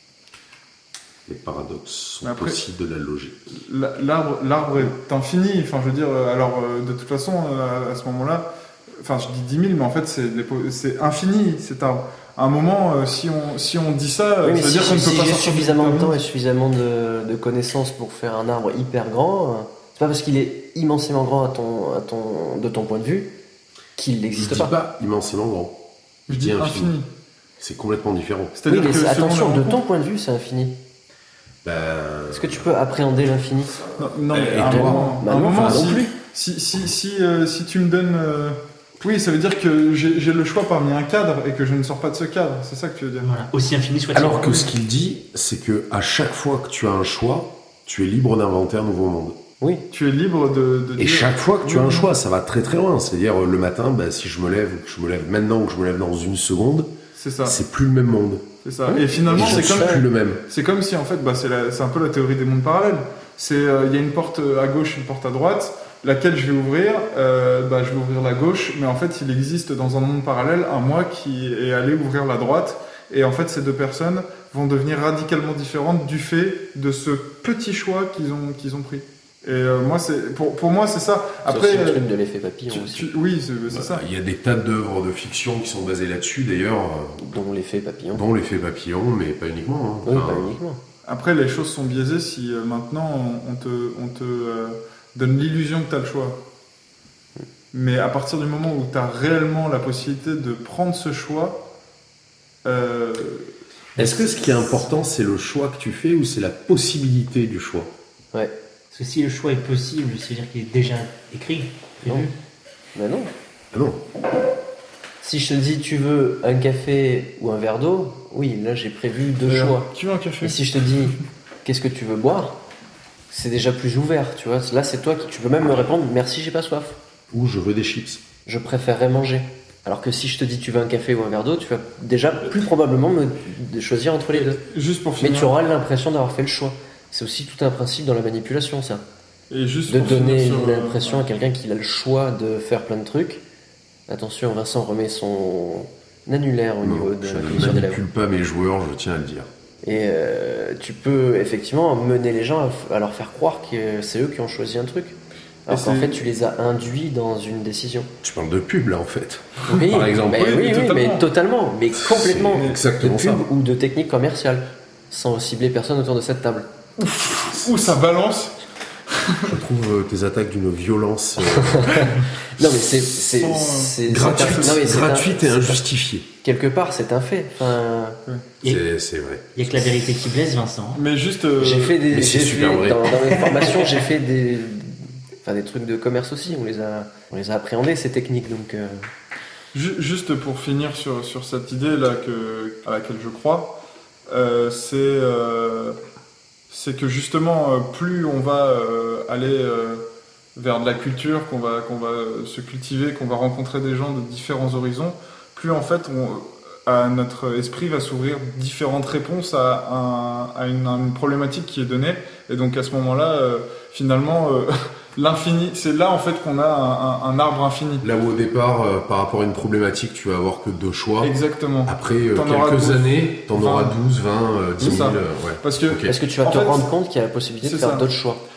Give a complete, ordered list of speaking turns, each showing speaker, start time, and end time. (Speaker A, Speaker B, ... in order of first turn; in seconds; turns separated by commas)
Speaker A: 1.3-3.5, Speaker B: 2.2-2.6, Speaker B: 3.5-8.5, Speaker B: 9.0-16.2, Speaker C: 14.4-23.4, Speaker C: 23.9-24.7, Speaker A: 24.3-26.9, Speaker B: 26.3-27.1, Speaker A: 27.6-28.6, Speaker B: 28.5-29.8, Speaker C: 28.7-30.8, Speaker A: 31.6-32.7, Speaker C: 32.3-33.8, Speaker B: 34.0-43.3, Speaker A: 34.3-36.0, Speaker C: 34.5-36.1, Speaker D: 43.2-44.7, Speaker A: 44.1-49.4, Speaker C: 49.6-49.9, Speaker B: 49.9-52.1, Speaker A: 51.0-56.9, Speaker B: 57.1-57.6, Speaker A: 57.4-58.4, Speaker B: 58.6-82.0, Speaker C: 58.9-60.0, Speaker A: 59.3-60.4, Speaker C: 81.5-83.1, Speaker B: 82.7-84.0, Speaker A: 83.7-87.2, Speaker C: 87.2-88.2, Speaker A: 88.1-90.5, Speaker C: 90.0-90.8, Speaker B: 91.0-96.4, Speaker B: 97.7-101.6, Speaker B: 102.6-104.4, Speaker A: 104.0-107.9, Speaker D: 108.9-112.3, Speaker C: 112.0-112.3, Speaker C: 112.9-113.3, Speaker A: 113.7-114.0, Speaker C: 115.2-122.6, Speaker B: 119.5-121.2, Speaker C: 123.3-127.0, Speaker A: 127.3-128.2, Speaker C: 128.4-134.6, Speaker B: 134.3-135.5, Speaker C: 135.2-139.0, Speaker B: 139.5-141.2, Speaker C: 139.9-143.4, Speaker C: 144.1-148.0, Speaker A: 146.8-149.5, Speaker C: 149.8-158.1, Speaker B: 155.7-156.2, Speaker A: 158.2-160.7, Speaker C: 159.7-166.7, Speaker B: 160.3-161.2, Speaker A: 162.0-163.5, Speaker B: 162.5-162.8, Speaker B: 167.0-168.6, Speaker B: 169.1-169.6, Speaker A: 169.4-172.2, Speaker C: 171.4-175.8, Speaker B: 173.3-174.8, Speaker A: 174.1-176.3, Speaker C: 176.4-178.2, Speaker A: 178.6-179.7, Speaker D: 179.5-181.0, Speaker B: 180.9-182.0, Speaker C: 181.6-189.1, Speaker A: 182.1-183.1, Speaker D: 183.3-184.0, Speaker B: 189.7-196.0, Speaker B: 196.7-200.0, Speaker B: 200.6-218.0, Speaker A: 218.0-221.3, Speaker B: 221.2-224.0, Speaker A: 221.8-226.2, Speaker C: 224.8-225.1, Speaker B: 224.8-226.9, Speaker C: 226.1-228.4, Speaker B: 227.6-228.1